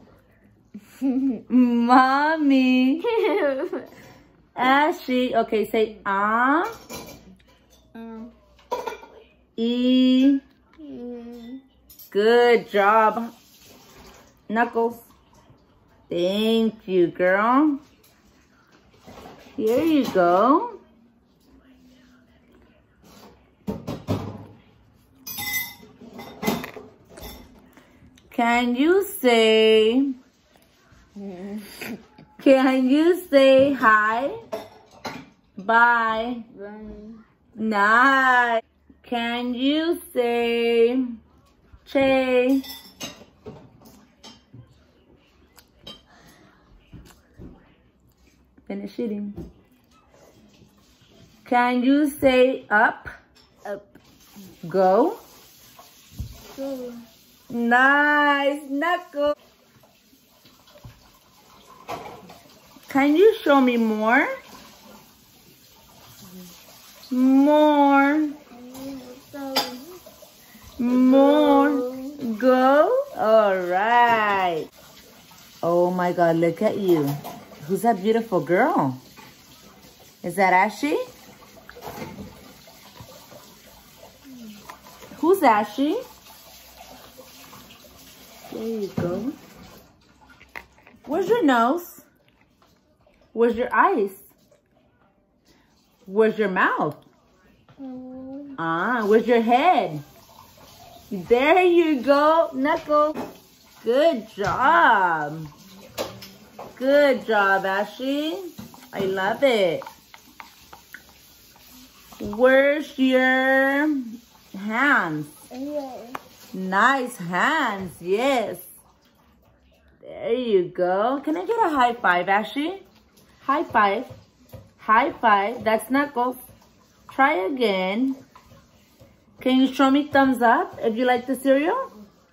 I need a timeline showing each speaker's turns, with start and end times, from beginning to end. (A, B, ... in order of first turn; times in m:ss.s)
0:01.3-0:03.1 A
0:03.0-0:03.9 B
0:04.6-0:06.7 A
0:07.9-0:08.3 B
0:09.6-0:10.4 A
0:10.8-0:11.6 B
0:12.1-0:13.3 A
0:14.5-0:15.1 A
0:16.1-0:17.8 A
0:19.6-0:20.8 A
0:28.3-0:30.1 A
0:31.2-0:32.0 B
0:32.4-0:34.4 A
0:35.6-0:36.4 A
0:36.5-0:37.2 B
0:37.5-0:41.1 A
0:41.8-0:42.6 A
0:48.7-0:49.4 A
0:51.4-0:53.1 A
0:54.6-0:55.2 A
0:56.5-0:57.0 B
0:57.5-0:59.3 A
1:02.9-1:04.3 A
1:07.1-1:08.4 A
1:08.5-1:10.0 B
1:10.8-1:14.7 A
1:10.9-1:12.2 B
1:15.6-1:19.0 A
1:20.2-1:21.0 A
1:25.2-1:26.0 A
1:28.5-1:29.3 A
1:31.0-1:32.0 A
1:33.3-1:34.3 A
1:36.0-1:37.0 A
1:37.8-1:38.6 B
1:38.6-1:40.0 A
1:41.1-1:43.2 A
1:43.8-1:45.5 A
1:46.8-1:49.9 A
1:52.2-1:55.4 A
1:55.5-1:56.2 B
1:56.5-1:58.7 A
2:00.0-2:02.8 A
2:03.4-2:04.1 A
2:04.8-2:06.5 A
2:07.1-2:08.2 A
2:09.4-2:11.9 A